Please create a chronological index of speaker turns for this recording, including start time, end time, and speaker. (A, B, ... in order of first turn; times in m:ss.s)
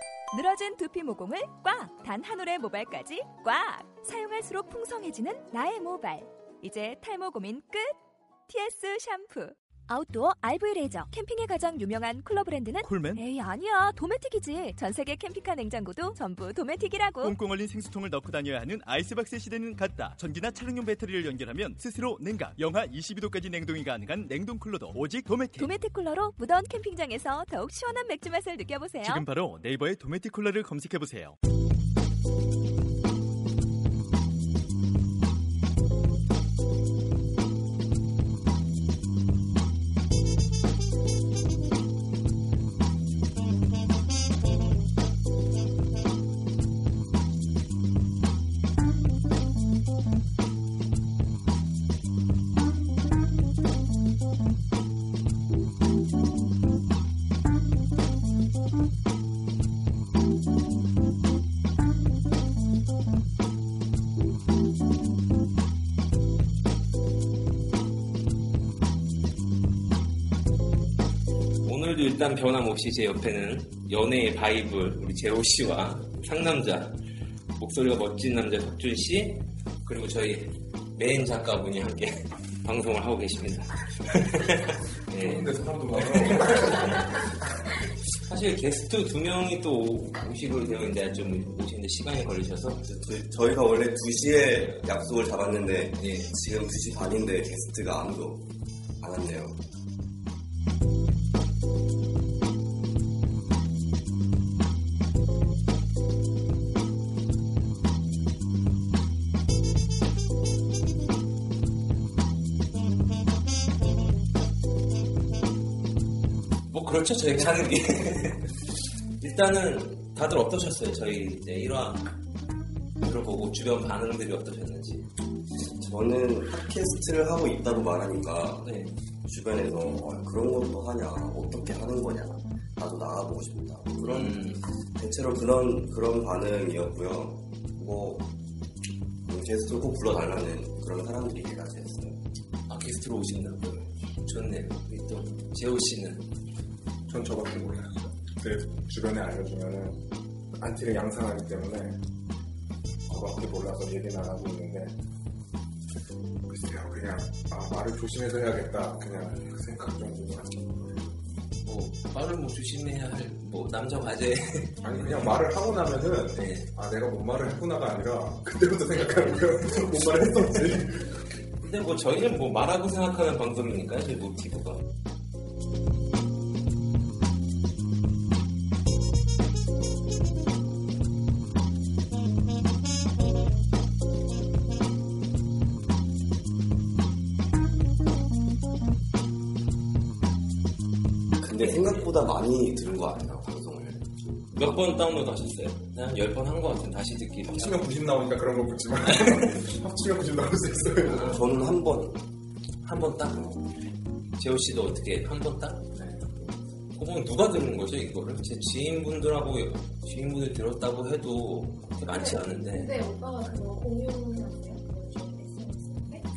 0:00.3-0:08.0 A
0:08.5-0:17.4 A
0:12.8-0:13.2 B
0:17.2-0:25.7 B
0:25.6-0:29.2 A
0:29.0-0:31.4 B
1:11.6-1:17.0 C
1:17.6-1:27.2 C
1:25.2-1:27.3 D
1:28.1-1:32.8 C
1:32.8-1:38.5 E
1:36.0-1:36.3 C
1:39.0-1:39.6 E
1:56.7-1:58.5 C
1:59.2-2:02.1 C
2:03.0-2:05.1 C
2:05.6-2:08.7 E
2:08.6-2:08.9 C
2:09.2-2:18.3 E
2:14.0-2:14.6 C
2:19.3-2:22.2 E
2:22.7-2:26.3 C
2:27.1-2:30.0 D
2:30.5-2:32.0 D
2:33.1-2:35.0 D
2:36.5-2:41.0 D
2:41.6-2:45.3 C
2:44.8-2:51.2 D
2:46.4-2:46.7 C
2:49.9-2:50.8 C
2:51.6-2:54.9 C
3:11.4-3:14.1 E
3:11.6-3:12.1 C
3:14.5-3:17.9 C
3:17.5-3:21.4 D
3:19.1-3:19.6 C
3:21.0-3:21.4 C
3:21.1-3:22.2 E
3:22.8-3:23.6 C
3:24.4-3:26.0 C
3:26.9-3:32.9 C
3:32.0-3:36.3 F